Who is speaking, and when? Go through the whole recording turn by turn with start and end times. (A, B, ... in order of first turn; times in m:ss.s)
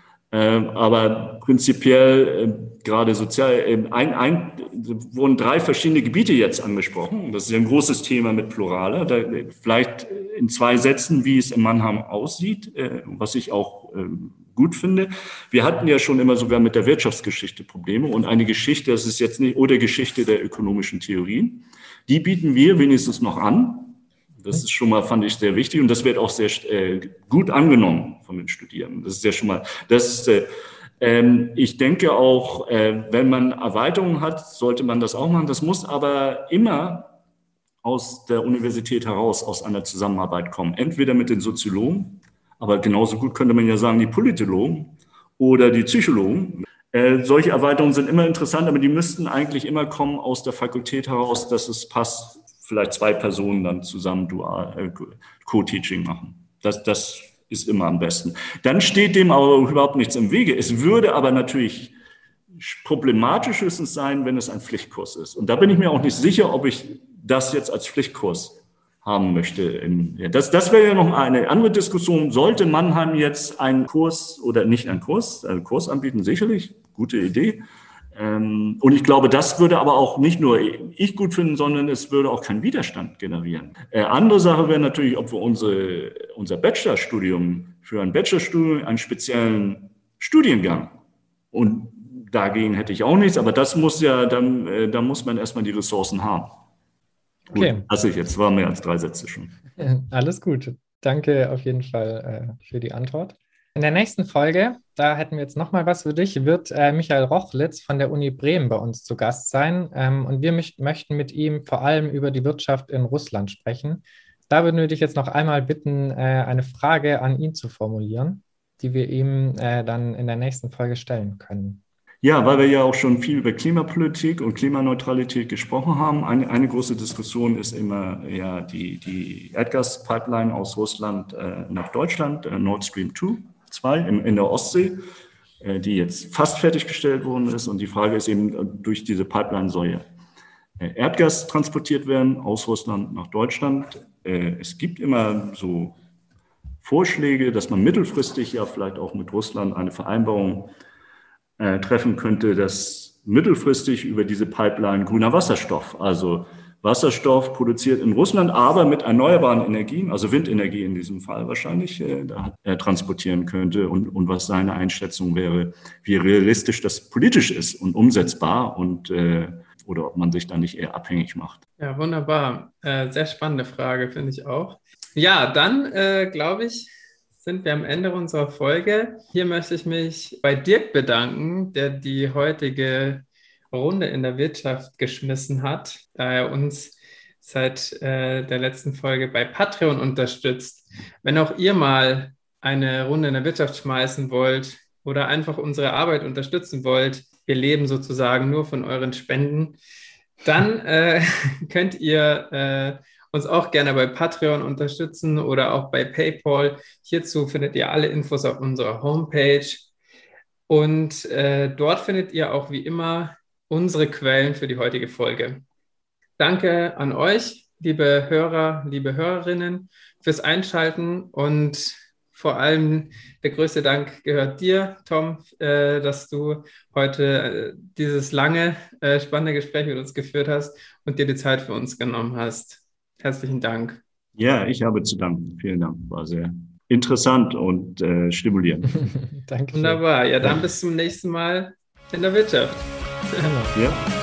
0:00.3-0:30.5 A
0:31.0-0:37.1 A
0:37.8-1:01.9 A
1:02.5-1:17.6 A
1:18.1-1:30.9 A
1:31.5-1:36.6 A
1:37.5-1:37.8 B
1:37.5-1:39.5 A
1:39.8-2:01.8 B
2:02.2-2:15.0 A
2:15.6-2:20.0 A
2:20.8-2:26.0 A
2:26.8-2:30.7 A
2:31.6-2:51.6 A
2:51.8-3:19.8 C
3:20.4-3:29.9 C
3:30.7-3:35.6 C
3:36.4-3:54.0 C
3:54.4-3:59.1 A
3:59.1-4:00.0 B
3:59.7-4:03.5 C
4:03.4-4:03.8 B
4:03.7-4:04.0 A